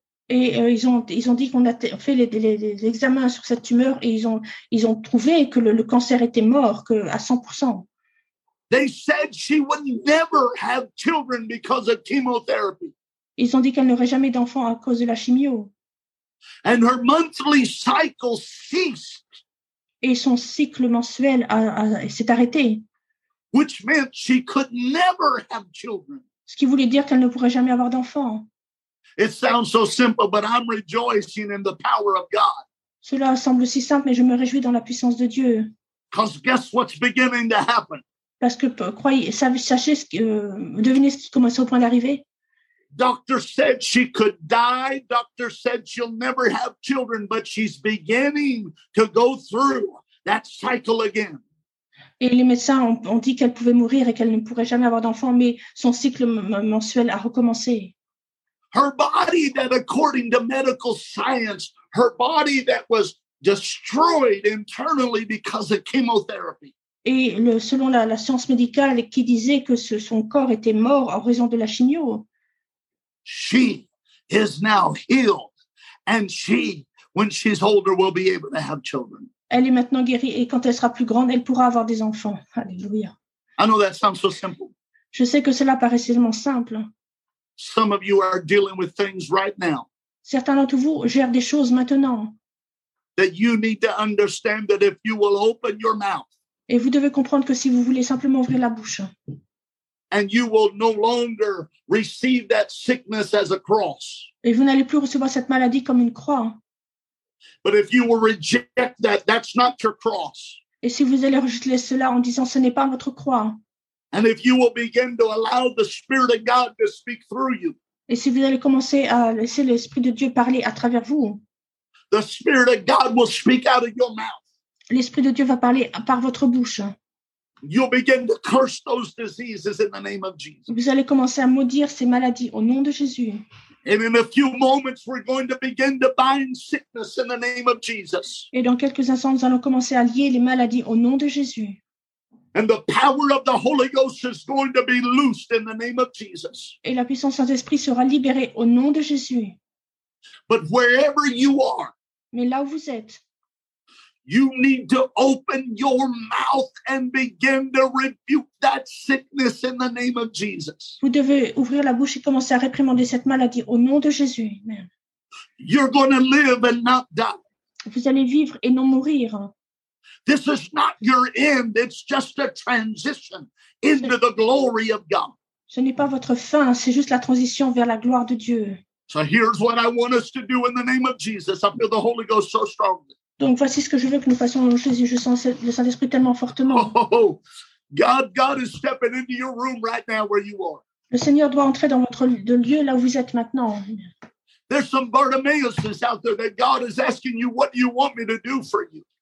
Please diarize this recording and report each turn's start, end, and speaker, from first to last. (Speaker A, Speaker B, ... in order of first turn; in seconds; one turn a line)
Speaker A: 0.3-7.9
Speaker B: 8.7-12.9
Speaker A: 13.4-15.7
Speaker B: 16.6-19.2
Speaker A: 20.0-22.8
Speaker B: 23.5-26.2
Speaker A: 26.5-28.5
Speaker B: 29.2-32.6
Speaker A: 33.0-35.7
Speaker B: 36.1-38.0
Speaker A: 38.4-42.2
Speaker B: 42.9-51.4
Speaker A: 52.2-57.9
Speaker B: 58.7-66.7
Speaker A: 67.0-72.2
Speaker B: 73.2-75.5
Speaker B: 76.1-79.3
Speaker A: 79.5-83.1
Speaker B: 83.6-84.7
Speaker A: 85.1-86.9
Speaker B: 87.6-89.9
Speaker A: 90.2-92.3
Speaker B: 93.2-96.2
Speaker A: 96.7-99.1
Speaker B: 100.1-104.3
Speaker A: 104.4-106.6
Speaker B: 107.6-110.6
Speaker A: 110.8-113.6
Speaker B: 114.1-117.7
Speaker A: 118.1-121.4
Speaker B: 122.1-124.4
Speaker A: 124.9-126.9
Speaker B: 127.6-130.7
Speaker A: 130.7-133.4
Speaker B: 133.8-138.5
Speaker A: 138.5-141.8
Speaker B: 142.5-146.7
Speaker A: 146.8-149.6
Speaker B: 150.5-151.9
Speaker A: 152.3-153.2
Speaker B: 154.3-161.0
Speaker A: 161.0-164.9
Speaker B: 165.6-167.4
Speaker A: 167.9-169.5
Speaker B: 170.2-175.3
Speaker A: 175.7-178.8
Speaker B: 179.1-183.1
Speaker A: 183.4-186.9
Speaker B: 186.7-187.4
Speaker B: 187.9-190.8
Speaker A: 191.1-194.1
Speaker B: 194.7-199.0